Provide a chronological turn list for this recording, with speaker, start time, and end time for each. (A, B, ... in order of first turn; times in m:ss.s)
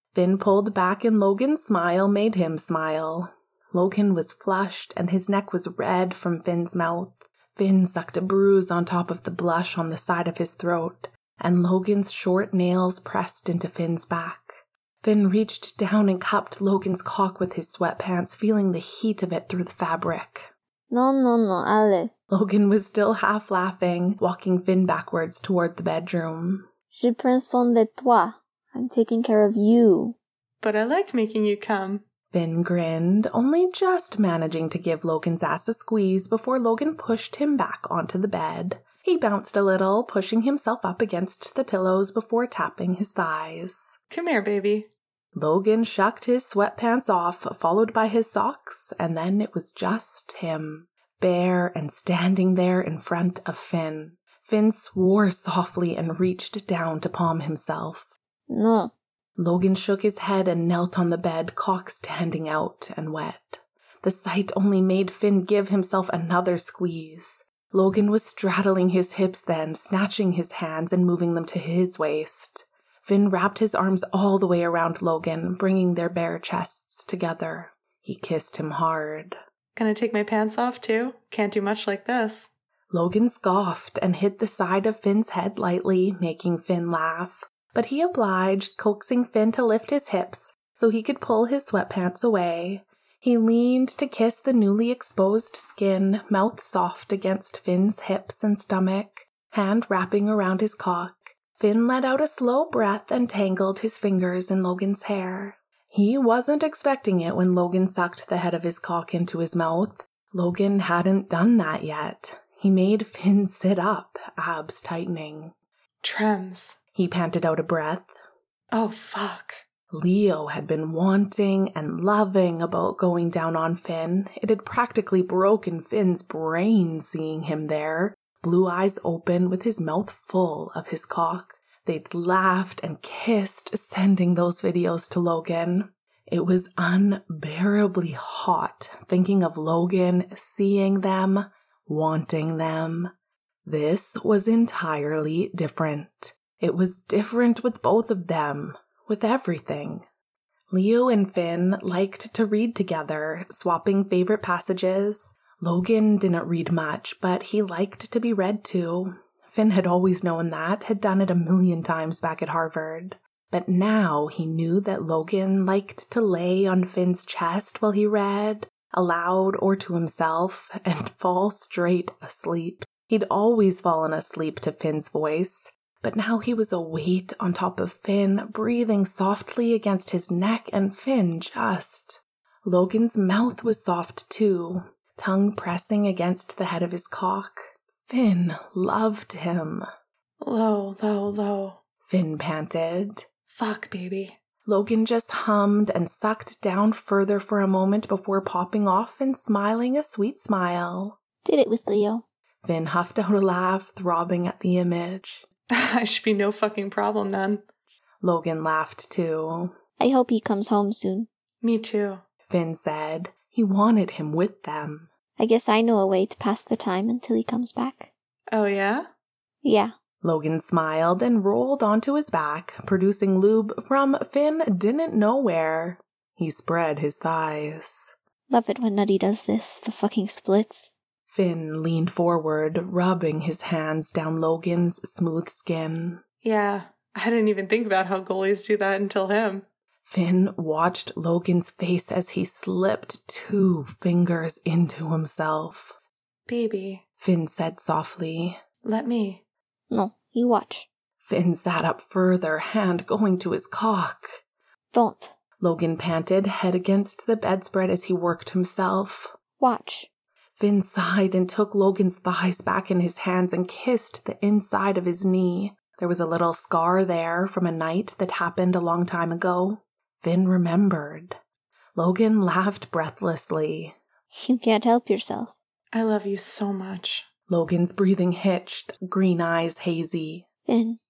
0:00.1-0:20.5 A
0:20.9-0:22.1 B
0:22.3-0:26.7 A
0:26.9-0:30.2 B
0:30.6-0:32.0 C
0:32.3-0:44.0 A
0:44.1-0:44.9 C
0:45.3-0:58.1 A
0:58.5-0:58.9 B
0:59.4-1:19.4 A
1:19.8-1:22.5 C
1:22.9-1:55.5 A
1:56.0-1:56.8 C
1:56.9-1:58.1 A
1:58.7-1:59.6 C
1:59.9-2:23.1 A
2:23.6-2:30.0 A
2:30.7-3:09.8 A
3:10.4-3:11.8 C
3:12.0-3:13.2 A
3:13.5-3:14.4 C
3:14.6-3:21.2 A
3:21.4-3:22.2 B
3:22.6-3:25.4 A
3:25.7-3:27.6 C
3:28.2-3:29.7 A
3:30.0-3:31.3 B
3:31.6-3:32.2 C
3:32.5-3:35.1 A
3:35.4-3:38.1 B
3:38.5-3:39.1 C
3:39.6-3:39.9 B
3:40.2-3:48.1 A
3:48.5-3:50.9 B
3:51.3-3:56.2 A
3:56.4-3:59.6 C
4:00.0-4:06.0 A
4:06.5-4:07.0 C
4:07.2-4:08.6 A
4:08.8-4:09.4 C
4:09.9-4:10.9 B
4:11.2-4:14.4 A
4:14.9-4:15.3 B
4:15.6-4:19.3 A
4:19.6-4:20.1 B
4:20.6-4:31.4 A
4:32.0-4:33.9 A
4:34.3-4:35.5 B
4:35.9-4:37.2 C
4:37.5-4:40.4 A
4:40.7-4:41.0 B